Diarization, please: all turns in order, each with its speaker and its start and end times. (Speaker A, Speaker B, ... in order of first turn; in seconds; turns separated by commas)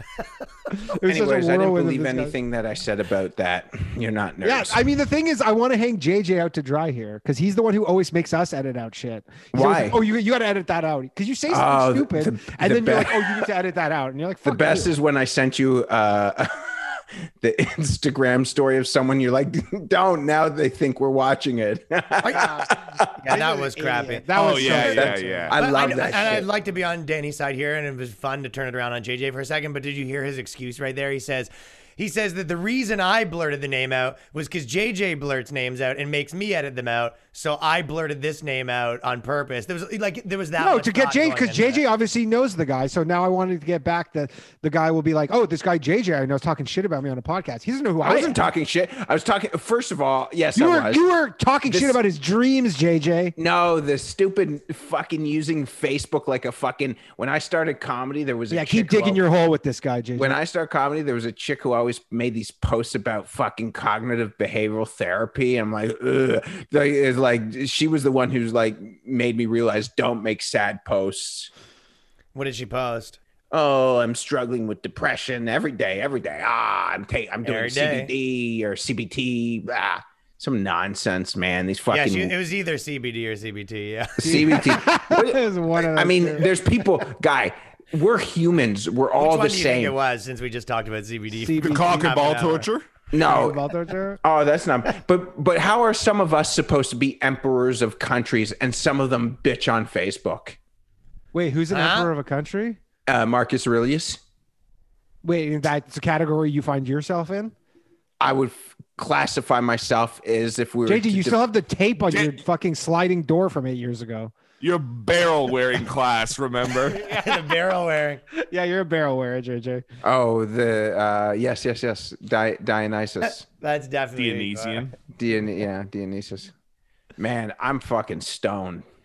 Speaker A: 0.2-0.4, Speaker B: 0.7-2.3, Speaker C: 1.0-4.9, Speaker B: 4.4-14.9, Speaker C: 9.5-10.0, Speaker C: 11.5-13.5, Speaker C: 14.4-23.1, Speaker A: 22.2-22.5, Speaker B: 22.3-25.6, Speaker A: 23.1-41.8, Speaker D: 24.3-25.5, Speaker C: 24.8-26.5, Speaker B: 40.6-48.4, Speaker C: 48.0-51.0, Speaker B: 50.5-53.4, Speaker C: 51.7-52.0, Speaker C: 53.4-59.2, Speaker B: 58.5-60.4, Speaker C: 60.1-71.5, Speaker A: 72.3-73.2, Speaker C: 73.5-82.3, Speaker A: 77.4-78.1, Speaker A: 81.9-84.6, Speaker C: 84.2-90.0, Speaker B: 84.2-86.5, Speaker A: 89.2-92.7, Speaker B: 91.3-92.1, Speaker D: 91.6-92.8, Speaker C: 93.1-93.6, Speaker B: 93.2-94.2, Speaker C: 94.2-100.6, Speaker B: 101.3-102.8, Speaker A: 101.7-102.1, Speaker C: 103.1-104.2, Speaker B: 105.2-107.5, Speaker C: 108.2-111.4, Speaker B: 110.8-114.3, Speaker D: 112.1-112.4, Speaker D: 114.6-117.0, Speaker B: 116.9-117.5, Speaker A: 117.0-118.2, Speaker B: 118.3-119.8, Speaker C: 120.0-123.4, Speaker A: 123.2-124.9, Speaker D: 124.2-124.9, Speaker C: 125.1-126.5, Speaker C: 127.2-128.8